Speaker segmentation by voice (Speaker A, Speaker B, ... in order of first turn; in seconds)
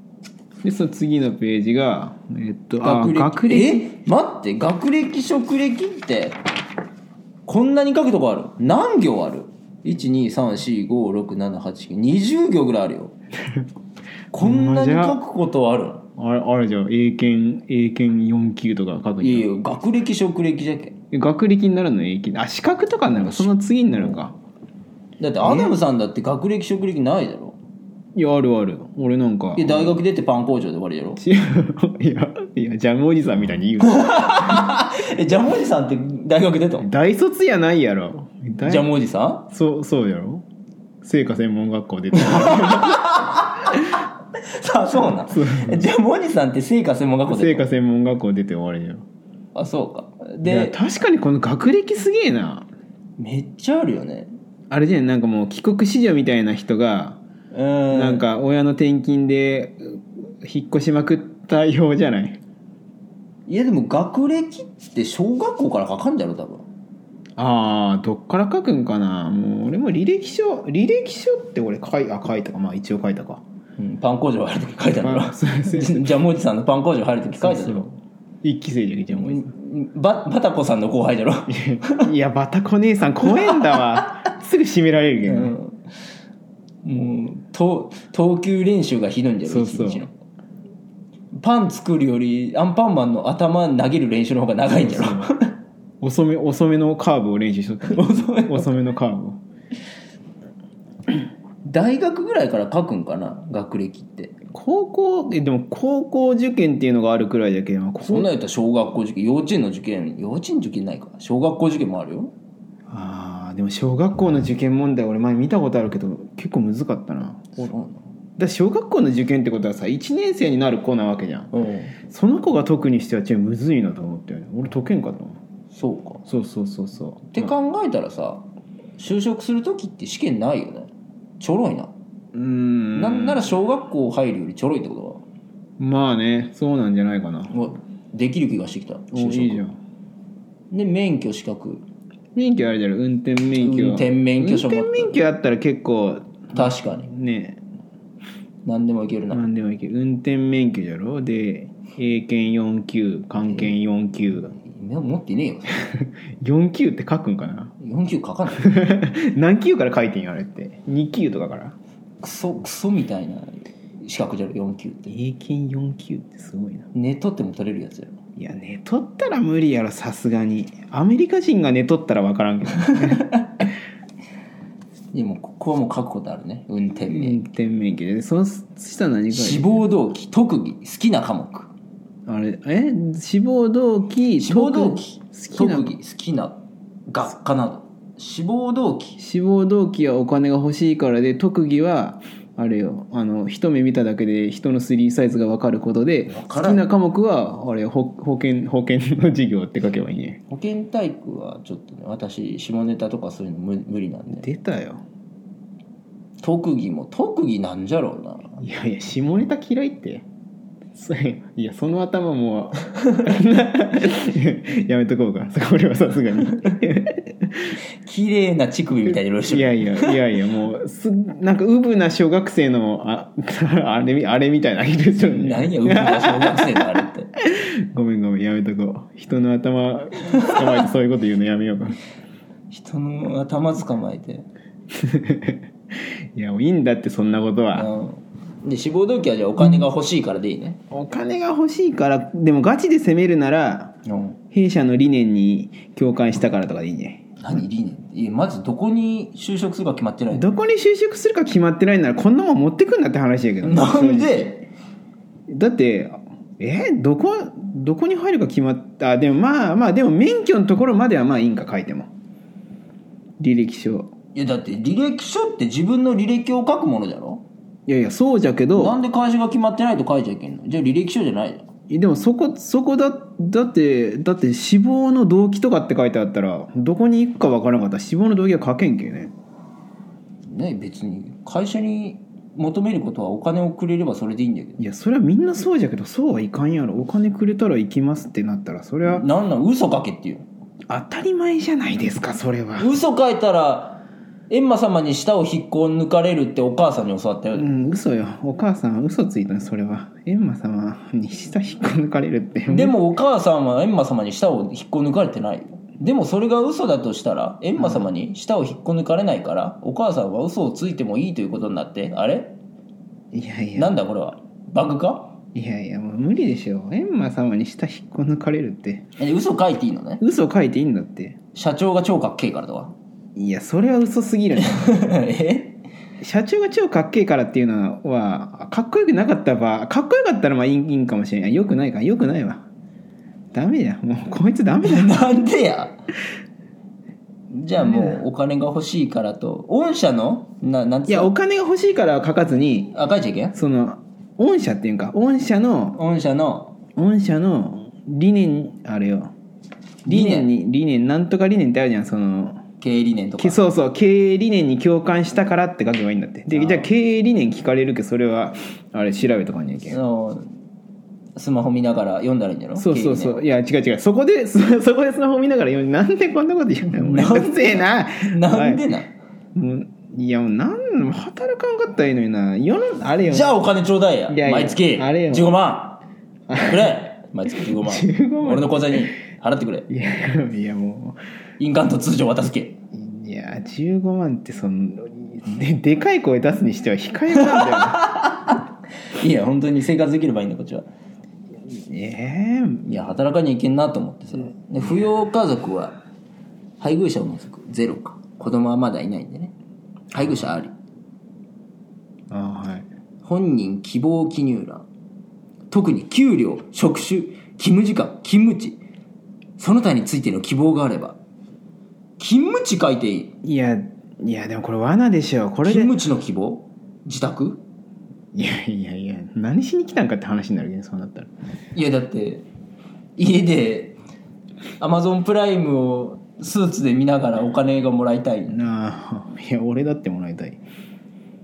Speaker A: 0.6-3.9, 14.4-15.2, 16.2-19.5, 21.1-24.4, 25.4-25.7, 28.1-30.0, 31.2-34.6, 36.8-38.9, 39.5-40.4, 41.0-43.0, 45.3-45.9, 47.3-49.0, 50.4-52.7, 54.7-57.2, 57.9-62.4, 67.4-73.4, 75.0-76.1, 77.4-77.9, 78.4-79.5, 81.5-85.6, 89.5-90.0, 94.8-95.3, 96.0-99.4, 104.5-108.3, 112.9-117.7, 118.4-121.5, 122.1-125.4, 126.3-127.5, 132.3-133.5, 135.8-137.5, 139.1-139.8, 142.3-147.6, 149.3-154.5, 155.9-157.7, 158.5-161.8, 165.1-166.9, 168.3-173.4, 176.9-179.7, 182.2-185.9, 189.2-200.4, 204.3-205.0, 208.6-210.2, 210.9-217.8, 219.1-226.7, 227.5-232.0, 235.0-235.6, 236.3-237.9, 239.6-239.9, 240.9-244.0, 244.5-247.3, 250.3-254.5, 255.5-262.1, 263.4-264.1, 267.9-269.0, 271.9-279.3, 284.8-289.2, 290.9-292.9, 297.5-303.0, 307.8-308.1, 313.3-314.0, 315.5-319.1, 320.2-321.4, 323.4-325.0, 326.2-332.6, 333.5-335.2, 337.8-338.2, 341.1-342.9, 343.5-346.0, 346.9-349.3, 350.1-352.6, 353.4-360.0, 362.7-368.8, 369.5-373.6, 374.3-375.6, 376.5-376.9, 377.6-379.1, 379.9-381.2, 382.9-388.1, 391.7-393.1, 400.1-400.5, 402.3-402.9, 413.4-416.0, 418.3-421.3, 428.5-430.6
Speaker B: 2.8-6.4, 7.5-13.1, 14.3-16.0, 19.2-20.9, 23.1-24.2, 25.2-27.6, 29.5-31.2, 33.8-36.9, 38.6-39.5, 42.1-44.0, 44.5-47.7, 49.5-50.7, 53.2-54.3, 57.5-58.3, 63.5-66.6, 73.8-77.9, 79.1-82.0, 83.2-83.9, 85.2-85.8, 86.8-90.1, 91.3-95.5, 97.9-98.7, 101.7-104.3, 108.0-112.3, 117.6-118.0, 121.5-121.9, 125.7-126.2, 127.3-128.4, 129.0-131.9, 132.9-135.2, 137.5-139.6, 140.7-141.8, 143.6-145.2, 146.5-147.1, 148.6-149.4, 153.4-153.7, 154.5-155.8, 157.8-158.8, 162.2-165.1, 166.9-168.1, 175.1-177.4, 179.3-181.7, 184.4-189.2, 196.3-196.8, 200.5-204.4, 206.4-208.6, 218.0-220.2, 225.2-227.3, 230.3-230.8, 232.7-234.4, 237.7-240.8, 244.1-244.4, 247.4-250.5, 253.6-254.7, 264.3-267.4, 268.8-271.7, 280.4-284.8, 289.0-290.4, 292.8-297.7, 302.7-312.6, 313.8-315.3, 319.2-320.2, 321.5-322.9, 324.6-325.8, 334.8-336.0, 337.5-341.3, 342.9-343.6, 345.9-346.7, 350.1-350.5, 352.8-353.6, 356.5-356.9, 359.9-360.5, 361.4-363.4, 366.9-369.1, 373.3-376.0, 376.6-379.9, 381.6-382.8, 387.4-388.6, 389.1-390.9, 392.8-396.0, 396.8-399.5, 400.1-400.7, 403.2-404.8, 405.7-408.8, 409.6-411.2, 412.2-413.3, 415.6-417.6, 421.7-422.4, 423.2-423.9, 424.8-428.6